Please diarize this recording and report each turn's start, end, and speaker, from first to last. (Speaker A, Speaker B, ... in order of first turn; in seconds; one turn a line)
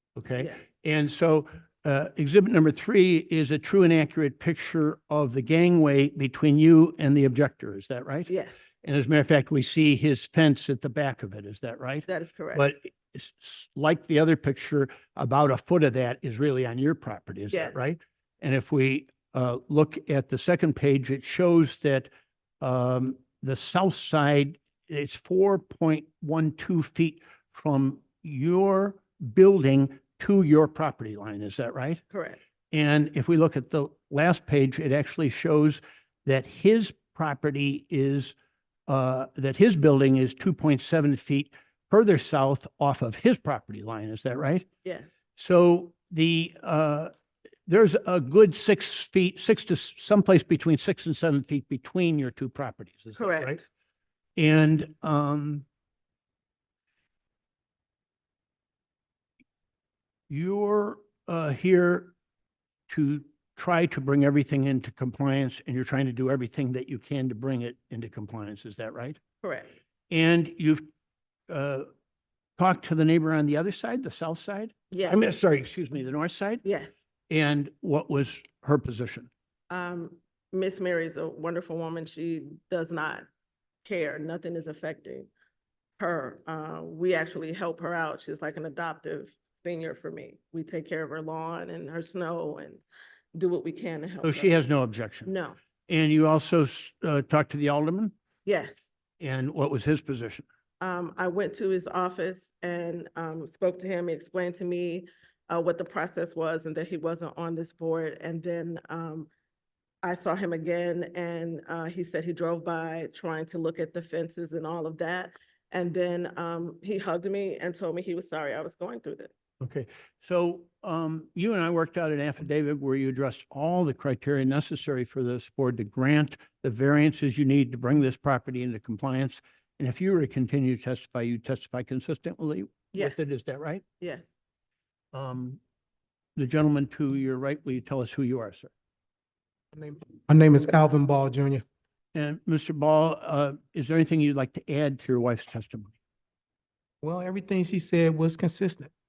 Speaker A: 0.2-8.3
Speaker B: 0.4-0.7
Speaker B: 8.3-8.6
Speaker A: 8.8-32.0
Speaker B: 12.1-12.7
Speaker B: 17.5-17.8
Speaker B: 32.1-32.4
Speaker A: 32.7-38.3
Speaker A: 38.9-44.7
Speaker B: 44.8-45.1
Speaker A: 45.4-47.1
Speaker A: 47.7-53.6
Speaker B: 53.1-53.6
Speaker A: 54.4-55.6
Speaker A: 60.3-62.1
Speaker A: 62.9-69.2
Speaker B: 69.4-69.7
Speaker A: 70.1-70.8
Speaker A: 71.5-71.9
Speaker A: 72.6-76.6
Speaker B: 74.9-75.2
Speaker B: 76.6-77.0
Speaker A: 77.3-79.3
Speaker B: 79.7-83.2
Speaker B: 83.8-85.3
Speaker B: 86.0-94.5
Speaker A: 94.2-95.3
Speaker B: 95.2-95.6
Speaker A: 95.9-98.1
Speaker B: 98.4-98.9
Speaker A: 99.2-100.5
Speaker B: 100.8-109.3
Speaker B: 110.0-119.3
Speaker A: 119.6-133.8
Speaker B: 132.9-133.2
Speaker B: 134.0-134.2
Speaker A: 135.1-135.6
Speaker A: 136.4-138.7
Speaker C: 139.7-141.7
Speaker A: 142.2-146.0
Speaker C: 147.0-148.9